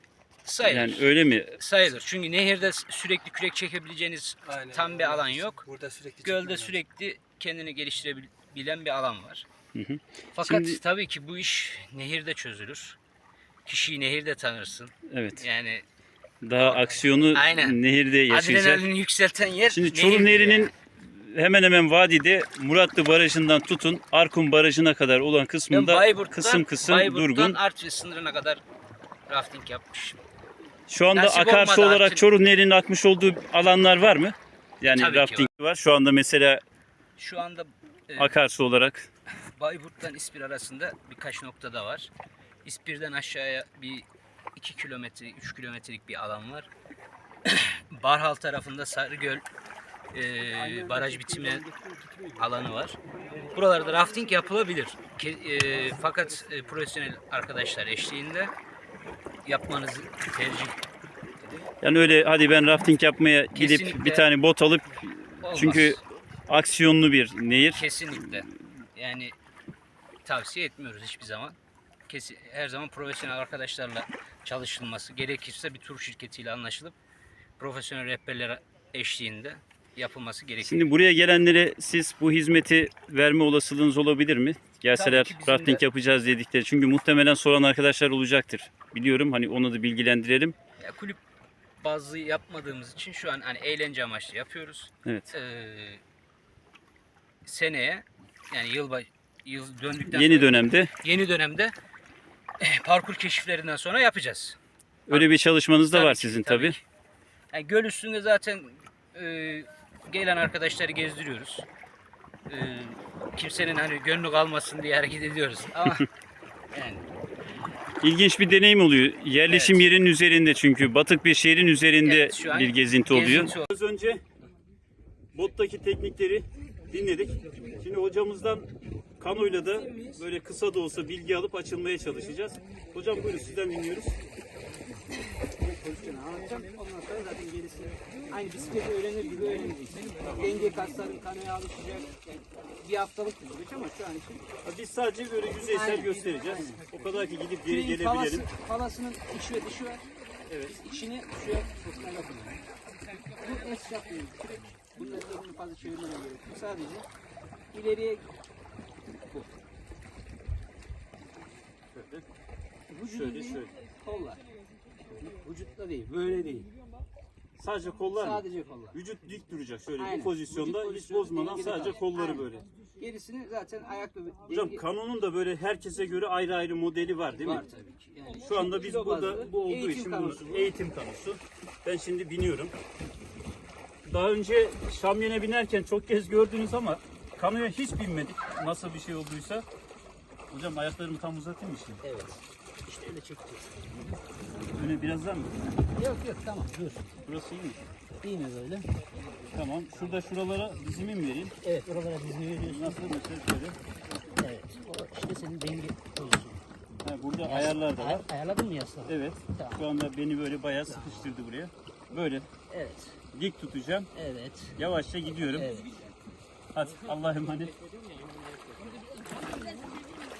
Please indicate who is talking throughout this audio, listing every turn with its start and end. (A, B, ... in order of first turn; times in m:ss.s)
0:00.4-0:05.6 A
0:00.6-0:01.6 B
0:04.6-0:06.8 C
0:06.2-0:09.5 A
0:09.7-0:10.8 B
0:10.4-0:13.0 A
0:13.6-0:15.8 A
0:15.1-0:15.4 B
0:16.4-0:18.8 B
0:16.6-0:20.7 A
0:19.7-0:27.6 B
0:25.7-0:28.6 A
0:29.3-0:30.2 A
0:30.9-0:36.6 B
0:31.1-0:32.3 A
0:34.9-0:35.5 A
0:37.2-0:38.4 A
0:38.2-0:39.1 B
0:39.6-0:42.1 A
0:42.6-0:46.7 A
0:47.4-0:49.4 A
0:50.1-0:51.6 A
0:50.7-0:52.3 C
0:52.4-0:58.5 A
0:59.4-1:00.8 A
1:01.8-1:07.9 B
1:03.5-1:04.2 A
1:05.4-1:06.0 A
1:07.7-1:09.4 A
1:10.2-1:17.0 A
1:17.6-1:20.9 A
1:20.6-1:30.6 B
1:24.9-1:25.8 A
1:30.8-1:31.2 A
1:31.8-1:36.0 A
1:37.4-1:41.7 A
1:40.1-1:40.9 B
1:42.6-1:44.6 A
1:45.1-1:46.8 B
1:45.1-1:46.8 A
1:47.5-1:51.7 A
1:52.5-1:56.1 A
1:56.7-1:57.1 A
1:58.0-2:04.2 B
1:59.5-1:59.9 A
2:02.0-2:03.7 A
2:05.3-2:14.2 B
2:09.5-2:10.2 A
2:15.6-2:24.5 A
2:20.2-2:20.5 B
2:24.6-2:28.5 B
2:25.6-2:27.1 A
2:27.6-2:30.1 A
2:30.5-2:30.8 B
2:30.7-2:32.6 A
2:33.3-2:37.1 A
2:37.7-2:38.3 A
2:41.9-2:42.2 B
2:42.9-2:44.5 A
2:43.1-2:43.7 B
2:45.1-2:46.7 A
2:47.6-2:52.6 B
2:48.0-2:49.0 A
2:50.0-2:54.8 A
2:54.5-2:57.7 B
2:57.4-3:00.7 A
2:58.4-3:02.7 B
3:04.0-3:09.6 B
3:10.5-3:12.0 B
3:12.0-3:13.9 A
3:14.8-3:15.6 B
3:16.0-3:17.1 A
3:17.2-3:17.8 B
3:18.2-3:18.9 A
3:19.5-3:21.5 B
3:21.6-3:23.1 A
3:22.6-3:23.8 B
3:24.4-3:26.6 A
3:27.0-3:28.3 B
3:27.4-3:29.8 A
3:29.1-3:32.5 B
3:30.9-3:31.4 A
3:32.7-3:33.2 A
3:33.3-3:34.1 B
3:34.2-3:34.8 A
3:34.8-3:35.7 B
3:35.5-3:36.1 A
3:36.7-3:37.7 B
3:38.7-3:40.2 A